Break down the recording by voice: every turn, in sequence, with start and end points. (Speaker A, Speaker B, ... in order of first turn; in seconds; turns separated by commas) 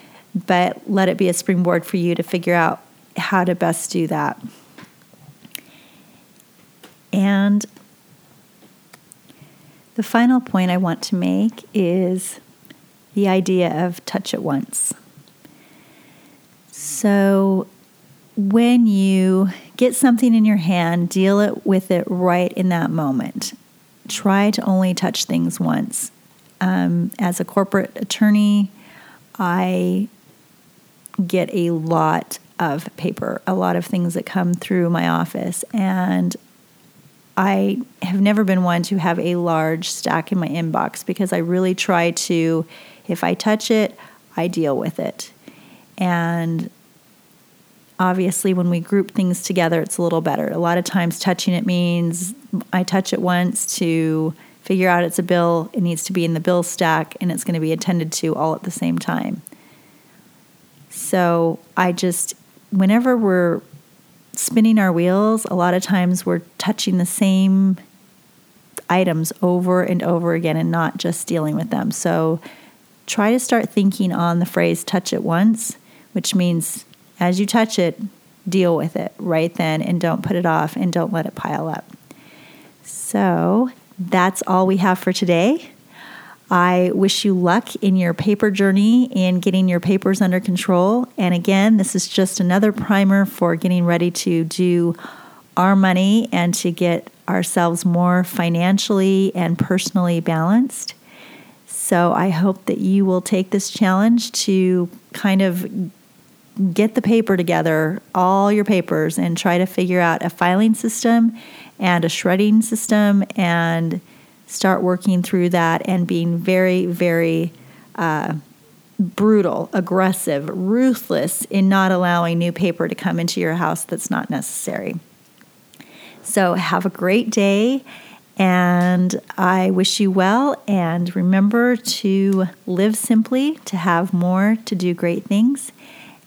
Speaker A: 0.4-4.4, Speaker A: 7.1-7.7, Speaker A: 9.9-12.4, Speaker A: 13.1-14.9, Speaker A: 16.7-17.7, Speaker A: 18.4-28.7, Speaker A: 29.4-30.1, Speaker A: 31.2-36.4, Speaker A: 37.4-45.3, Speaker A: 46.0-46.7, Speaker A: 48.0-59.4, Speaker A: 60.9-63.6, Speaker A: 64.3-67.8, Speaker A: 68.9-72.4, Speaker A: 73.0-81.8, Speaker A: 82.8-85.7, Speaker A: 86.5-95.0, Speaker A: 95.6-101.0, Speaker A: 101.7-105.9, Speaker A: 106.6-118.4, Speaker A: 119.0-125.0, Speaker A: 126.2-127.8, Speaker A: 128.4-135.7